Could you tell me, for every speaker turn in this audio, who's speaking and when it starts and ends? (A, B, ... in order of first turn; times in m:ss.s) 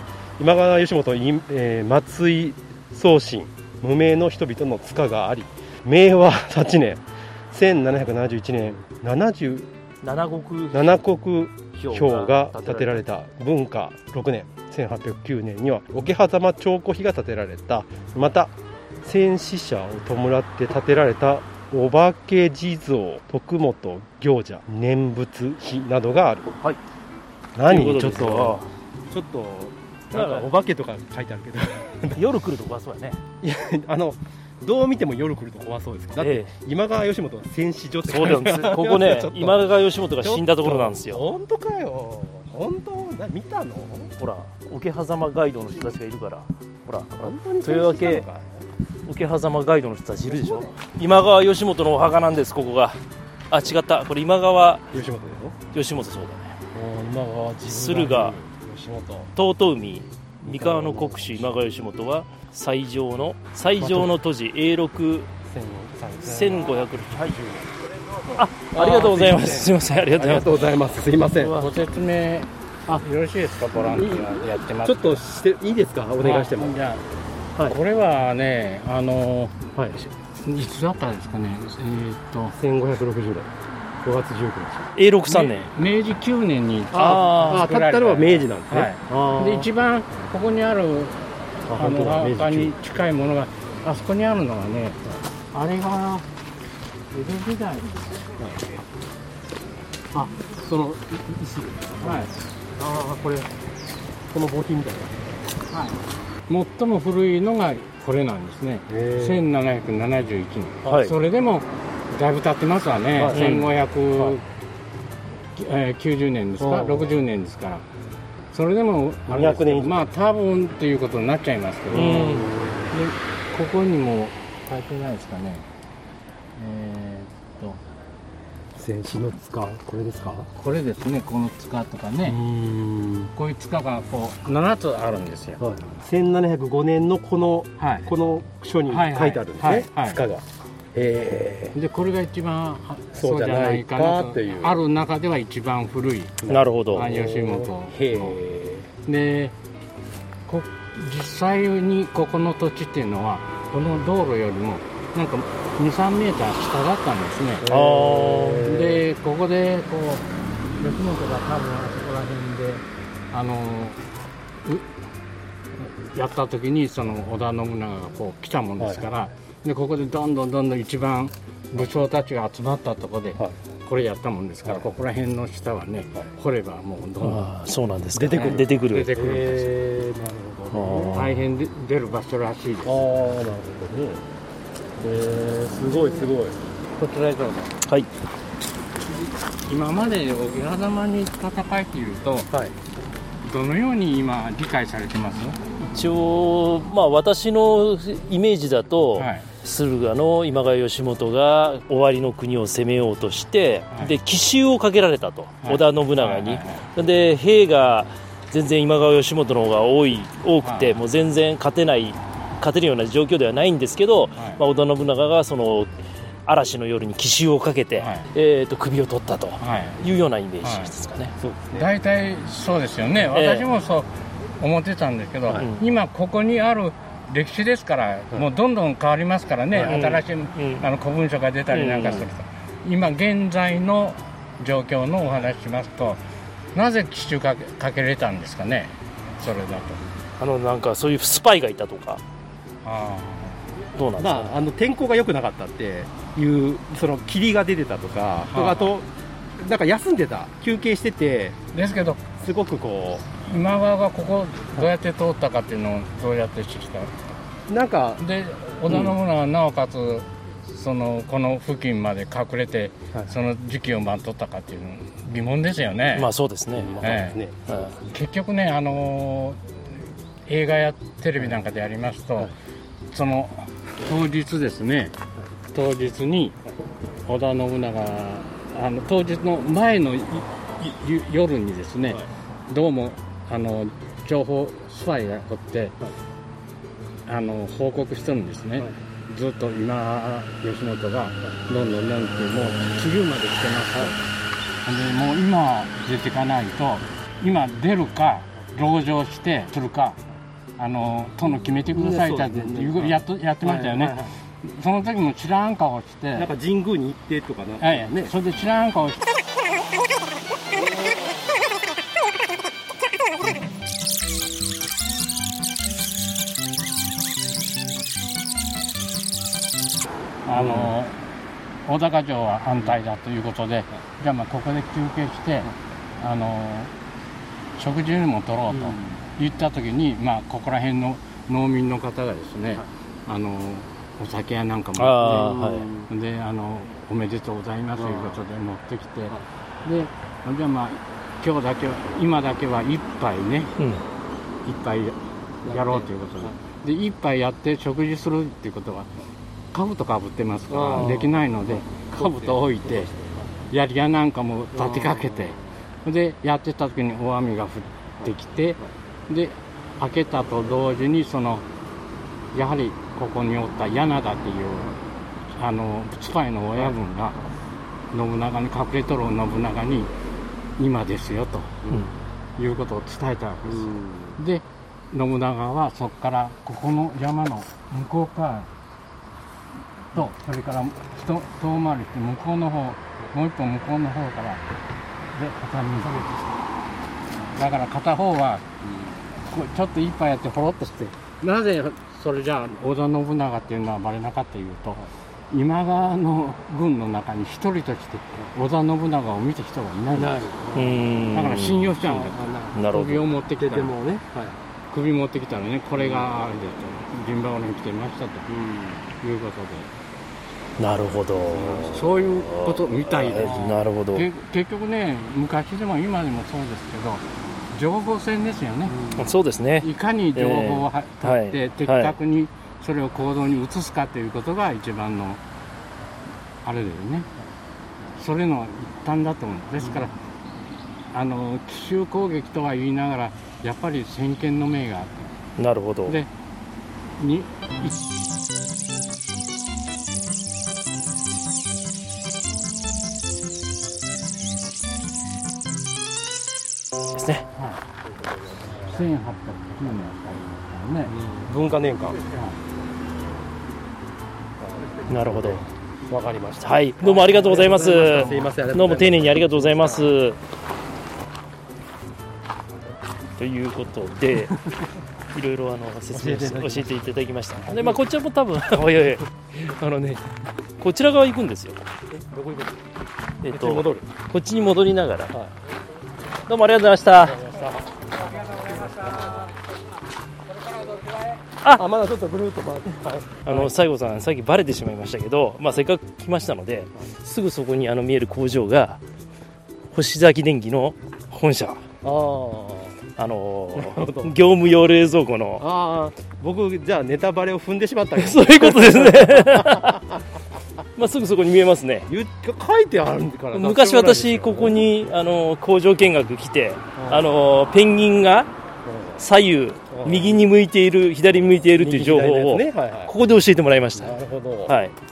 0:00.4-0:09.7 A
0:10.0-0:11.0 B
0:10.7-0:26.6 A
0:11.8-0:13.0 B
0:27.5-0:28.6 A
0:27.7-0:28.7 B
0:29.1-0:32.2 A
0:30.1-0:30.5 B
0:32.1-0:33.2 B
0:33.4-0:39.7 A
0:36.2-0:36.5 B
0:38.1-0:41.2 B
0:40.2-0:44.1 A
0:44.2-0:48.2 B
0:47.2-0:48.6 A
0:49.1-0:54.9 B
0:50.2-0:50.7 A
0:54.9-0:55.6 A
0:55.7-0:56.6 B
0:56.7-0:59.3 A
0:57.7-0:58.4 B
0:59.4-1:05.3 B
1:00.4-1:01.5 A
1:03.8-1:04.1 A
1:05.5-1:11.6 A
1:06.2-1:07.4 B
1:08.4-1:10.6 B
1:11.3-1:11.8 B
1:11.6-1:15.2 C
1:13.7-1:16.8 A
1:16.2-1:17.0 C
1:17.7-1:22.6 C
1:19.8-1:20.0 A
1:22.5-1:24.9 A
1:25.0-1:25.7 B
1:25.3-1:31.2 C
1:26.9-1:27.6 B
1:27.0-1:29.7 A
1:31.7-1:32.8 A
1:31.8-1:35.0 C
1:35.5-1:36.3 C
1:37.1-1:38.1 C
1:38.4-1:38.8 A
1:40.1-1:43.5 A
1:42.0-1:42.3 C
1:44.3-1:45.2 A
1:45.7-1:54.4 C
1:48.9-1:49.5 A
1:50.8-1:51.1 B
1:53.1-1:54.4 A
1:53.3-1:53.6 B
1:55.5-1:57.9 C
1:56.6-1:57.2 A
1:58.5-2:05.7 C
1:59.3-2:00.1 A
2:01.9-2:02.9 A
2:01.9-2:02.5 B
2:06.6-2:07.8 C
2:08.8-2:10.5 A
2:10.5-2:12.4 C
2:12.2-2:13.3 A
2:13.3-2:15.6 C
2:15.6-2:21.8 A
2:17.8-2:18.1 C
2:18.9-2:20.2 C
2:21.7-2:28.4 C
2:23.1-2:24.8 A
2:26.4-2:28.9 A
2:26.5-2:27.1 B
2:29.1-2:29.6 C
2:30.5-2:37.7 C
2:37.6-2:39.0 A
2:37.6-2:38.7 B
2:38.6-2:44.0 C
2:45.8-2:57.5 C
2:48.8-2:49.1 A
2:57.2-2:59.2 B
2:58.1-3:01.3 A
2:58.3-2:59.8 C
3:00.7-3:01.4 B
3:01.1-3:03.0 C
3:02.8-3:04.2 A
3:05.0-3:06.6 A
3:05.0-3:06.2 C
3:07.0-3:07.7 C
3:09.1-3:12.5 C
3:13.4-3:15.6 C
3:15.8-3:35.9 B
3:19.2-3:19.5 C
3:25.6-3:26.9 C
3:30.6-3:31.0 C
3:34.4-3:34.6 C
3:36.5-3:41.3 B
3:38.0-3:38.3 C
3:39.6-3:40.0 C
3:40.6-3:40.9 C
3:41.4-3:41.9 A
3:41.7-3:56.2 C
3:43.3-3:43.7 B
3:45.5-3:45.8 B
3:49.8-3:50.8 B
3:51.7-3:52.3 B
3:56.7-4:00.1 C
4:00.4-4:02.2 B
4:02.8-4:03.7 C
4:04.0-4:04.6 B
4:04.2-4:11.6 A
4:08.5-4:08.9 C
4:11.7-4:12.2 C
4:12.4-4:13.3 A
4:13.4-4:17.2 C
4:17.7-4:18.2 A
4:18.2-4:26.3 C
4:18.9-4:19.1 B
4:26.2-4:27.0 B
4:26.8-4:27.6 A
4:27.0-4:27.4 C
4:27.7-4:28.0 B
4:28.0-4:29.7 C
4:30.5-4:32.5 C
4:33.1-4:35.2 C
4:35.7-4:36.6 C
4:37.2-4:46.0 C
4:47.3-4:54.2 C
4:54.8-5:00.2 C
5:00.8-5:06.5 C
5:01.9-5:04.3 A
5:06.3-5:08.3 A
5:07.8-5:09.2 C
5:20.4-5:21.2 C
5:20.6-5:20.9 A
5:21.8-5:26.9 C
5:27.8-5:43.8 C
5:28.9-5:29.2 A
5:35.0-5:35.9 B
5:35.2-5:36.1 A
5:38.0-5:38.4 A
5:44.6-5:49.1 C
5:45.6-5:46.6 A
5:49.7-5:53.1 C
5:50.7-5:53.5 A
5:53.7-6:01.7 C
5:54.7-5:55.7 A
5:58.2-5:58.9 A
6:02.5-6:05.0 C
6:05.5-6:07.4 C
6:08.1-6:10.1 C
6:10.8-6:11.8 C
6:11.8-6:12.2 A
6:12.6-6:18.7 C
6:13.6-6:14.4 A
6:20.1-6:24.6 C
6:25.3-6:26.6 C
6:27.5-6:28.7 C
6:28.8-6:29.3 A
6:29.4-6:40.4 C
6:40.2-6:41.0 A
6:40.7-6:41.9 B
6:41.3-6:44.0 C
6:42.0-6:42.8 A
6:42.7-6:43.3 B
6:43.6-6:44.6 A
6:44.9-6:48.5 C
6:46.0-6:46.3 A
6:48.5-6:49.0 A
6:49.1-6:49.9 C
6:50.8-6:54.3 B
6:51.5-6:52.1 A
6:51.9-6:59.0 C
6:53.4-6:53.7 A
6:58.9-6:59.4 A
6:59.2-7:02.2 B
6:59.8-7:05.4 C
7:06.6-7:07.3 C
7:08.2-7:10.1 C
7:11.1-7:15.4 C
7:15.6-7:16.2 B
7:17.2-7:18.0 C
7:27.2-7:27.4 B
7:27.5-7:27.8 C
7:28.8-7:31.2 C
7:31.1-7:32.2 A
7:32.3-7:32.6 C
7:34.6-7:34.9 A
7:35.1-7:35.7 B
7:36.1-7:40.2 A
7:36.6-7:40.4 B
7:43.4-7:44.6 B
7:45.3-7:50.2 B
7:46.1-7:47.0 A
7:47.6-7:48.0 A
7:50.8-7:51.8 B
7:52.1-7:52.8 A
7:53.4-7:55.3 B
7:53.5-7:54.1 A
7:56.5-7:57.4 B
7:57.2-7:57.9 A
7:58.5-7:59.4 A
8:01.7-8:03.7 A
8:03.5-8:09.0 B
8:09.9-8:11.8 B
8:12.0-8:13.0 A
8:13.2-8:15.7 B
8:13.7-8:14.3 A
8:15.6-8:20.2 A
8:18.2-8:20.0 B
8:21.0-8:22.1 B
8:22.1-8:24.8 A
8:23.5-8:28.5 B
8:27.0-8:27.3 A
8:28.8-8:29.2 A
8:29.2-8:34.9 B
8:29.9-8:30.4 A
8:31.8-8:33.1 A
8:34.0-8:34.8 A